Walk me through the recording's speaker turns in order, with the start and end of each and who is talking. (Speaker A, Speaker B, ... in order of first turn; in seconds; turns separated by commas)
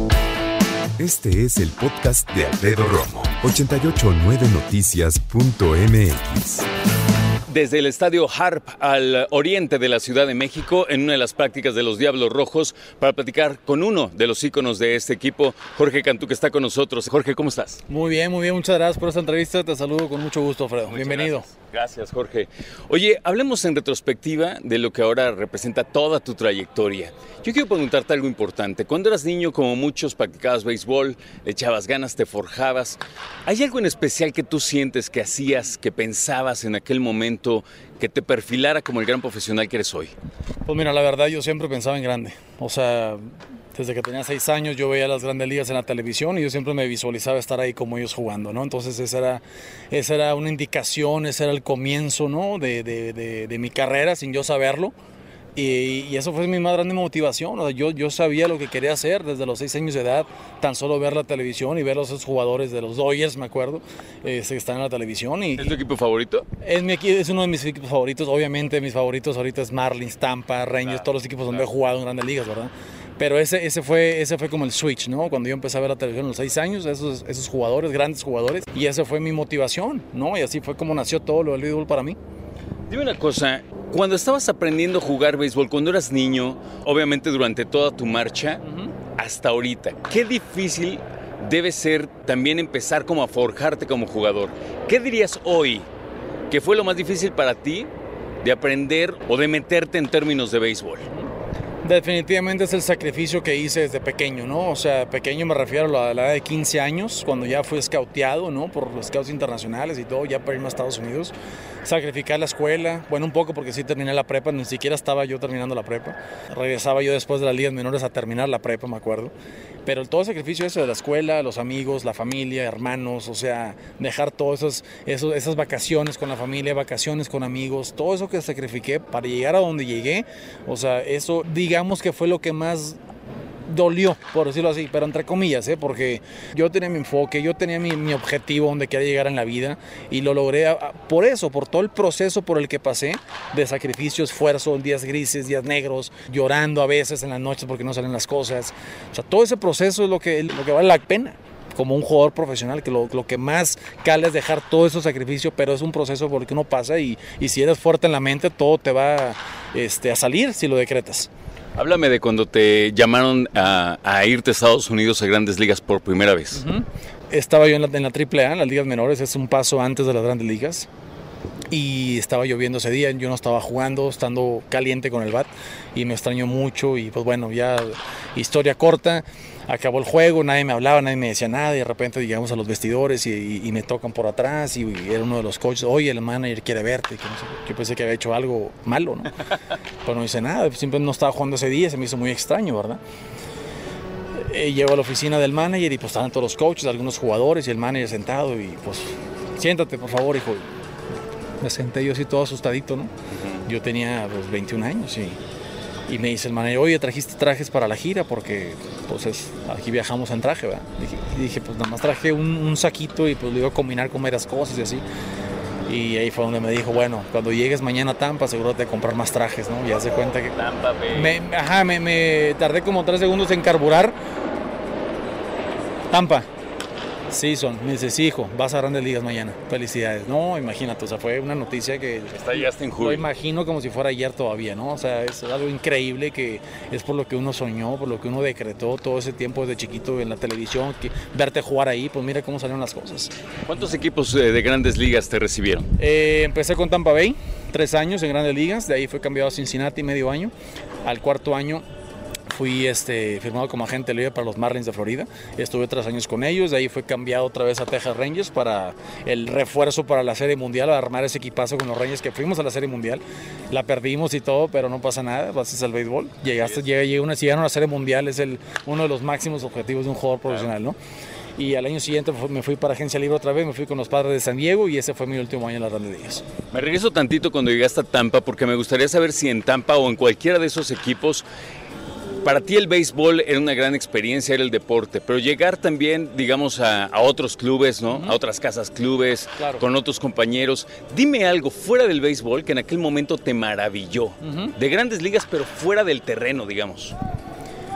Speaker A: 1.0-6.7, Speaker B: 7.5-17.8, Speaker C: 17.9-21.5, Speaker B: 20.9-40.1, Speaker C: 40.6-54.9, Speaker C: 55.5-65.8, Speaker B: 65.6-66.5, Speaker C: 66.6-82.2, Speaker B: 70.8-71.7, Speaker B: 82.9-88.6, Speaker C: 88.6-88.9, Speaker B: 89.2-95.9, Speaker B: 96.5-97.9, Speaker B: 98.4-101.0, Speaker C: 101.8-111.3, Speaker C: 111.8-119.3, Speaker C: 119.8-133.0, Speaker C: 133.7-161.3, Speaker B: 161.8-166.6, Speaker C: 166.5-170.9, Speaker C: 171.7-189.3, Speaker C: 190.0-193.0, Speaker C: 194.4-200.7, Speaker C: 201.6-203.1, Speaker C: 203.6-205.4, Speaker C: 206.1-215.0, Speaker C: 215.9-220.5, Speaker B: 220.5-221.3, Speaker C: 221.1-224.1, Speaker C: 226.1-226.5, Speaker C: 227.3-243.3, Speaker B: 232.3-233.3, Speaker B: 243.7-245.9, Speaker C: 246.0-250.5, Speaker C: 251.0-251.8, Speaker C: 252.5-270.9, Speaker C: 271.6-276.4, Speaker B: 276.7-281.4, Speaker B: 282.4-297.1, Speaker C: 288.1-288.4, Speaker C: 289.6-289.8, Speaker C: 294.4-294.7